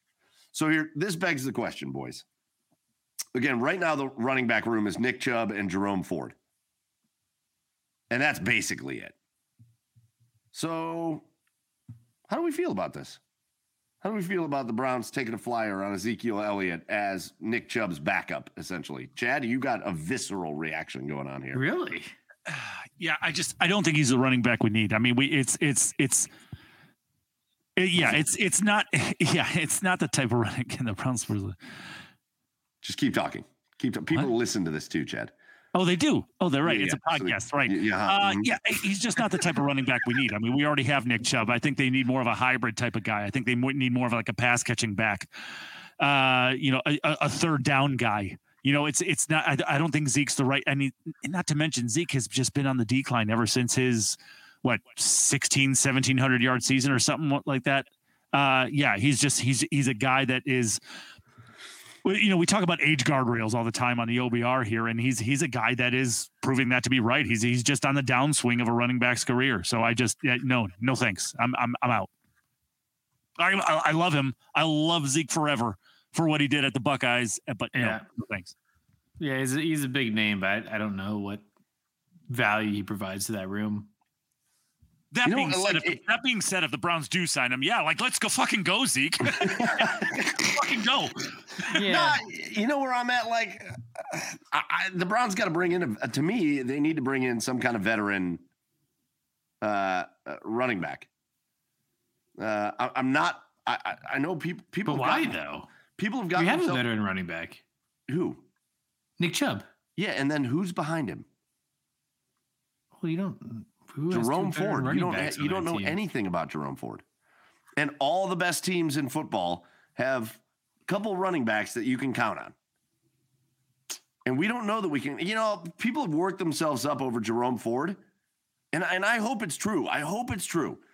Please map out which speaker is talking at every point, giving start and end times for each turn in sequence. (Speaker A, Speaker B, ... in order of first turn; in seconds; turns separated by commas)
Speaker A: 0.5-2.2, Speaker A: 3.3-6.3, Speaker A: 8.1-9.1, Speaker A: 10.5-11.2, Speaker A: 12.3-13.2, Speaker A: 14.0-21.6, Speaker B: 21.5-22.1, Speaker C: 22.5-26.3, Speaker C: 27.8-31.6, Speaker A: 32.8-35.3, Speaker C: 35.7-45.3, Speaker A: 36.6-38.5, Speaker A: 39.2-39.5, Speaker C: 46.0-60.8, Speaker C: 62.0-72.1, Speaker C: 73.4-78.5, Speaker B: 77.8-78.0, Speaker B: 79.2-81.4, Speaker B: 82.3-83.9, Speaker C: 85.1-91.5, Speaker A: 85.2-86.0, Speaker A: 89.4-90.6, Speaker B: 91.7-92.2, Speaker A: 91.7-98.4, Speaker A: 99.6-101.1, Speaker A: 102.4-105.4, Speaker B: 104.8-105.7, Speaker A: 106.0-106.8, Speaker B: 106.3-107.6, Speaker A: 108.1-108.4, Speaker B: 109.2-109.6, Speaker A: 110.0-111.2, Speaker B: 113.0-116.0, Speaker A: 114.1-117.0, Speaker A: 117.8-122.5, Speaker A: 124.2-128.0, Speaker A: 128.7-130.8